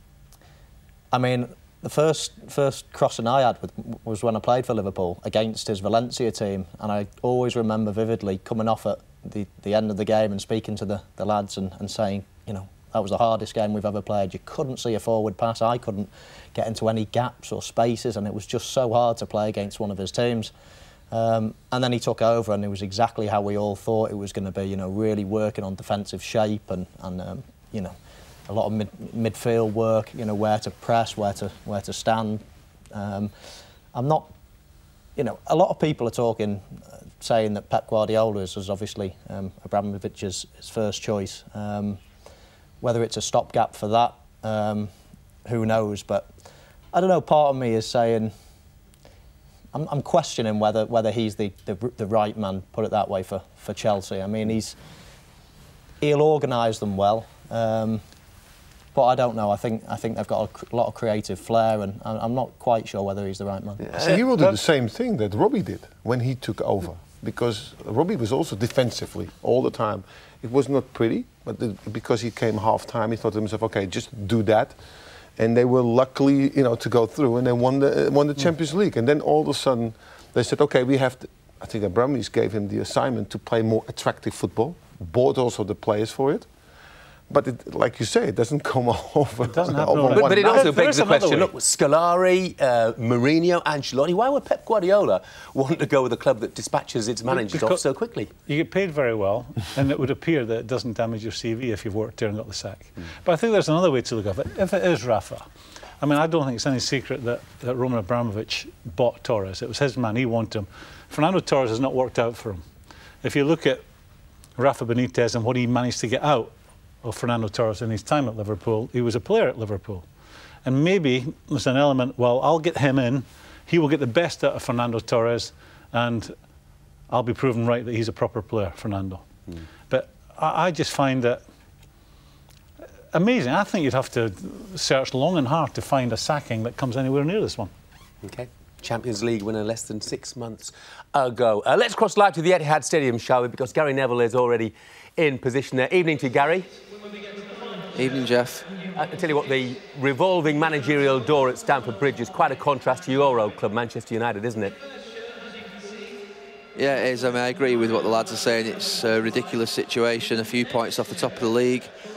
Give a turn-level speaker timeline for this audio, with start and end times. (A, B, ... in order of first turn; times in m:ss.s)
0:01.1-0:20.5 A
0:21.1-0:27.9 A
0:28.5-0:33.3 A
0:33.9-0:34.3 A
0:35.2-0:42.0 A
0:42.8-0:44.9 A
0:45.4-0:46.3 A
0:46.9-0:48.3 A
0:49.7-0:54.8 A
0:56.0-0:58.0 A
0:58.9-1:03.9 A
1:03.8-1:04.5 B
1:04.0-1:14.8 C
1:15.4-1:26.5 C
1:27.3-1:30.7 C
1:29.5-1:31.5 D
1:30.1-1:38.3 B
1:37.3-1:37.8 D
1:38.4-1:45.4 D
1:46.0-1:52.6 D
1:53.2-1:53.8 D
1:54.6-2:00.0 D
2:00.6-2:06.3 D
2:07.1-2:09.2 D
2:09.9-2:11.4 D
2:13.1-2:17.7 D
2:18.2-2:26.7 B
2:27.9-2:28.7 E
2:28.9-2:34.8 B
2:36.7-2:41.9 E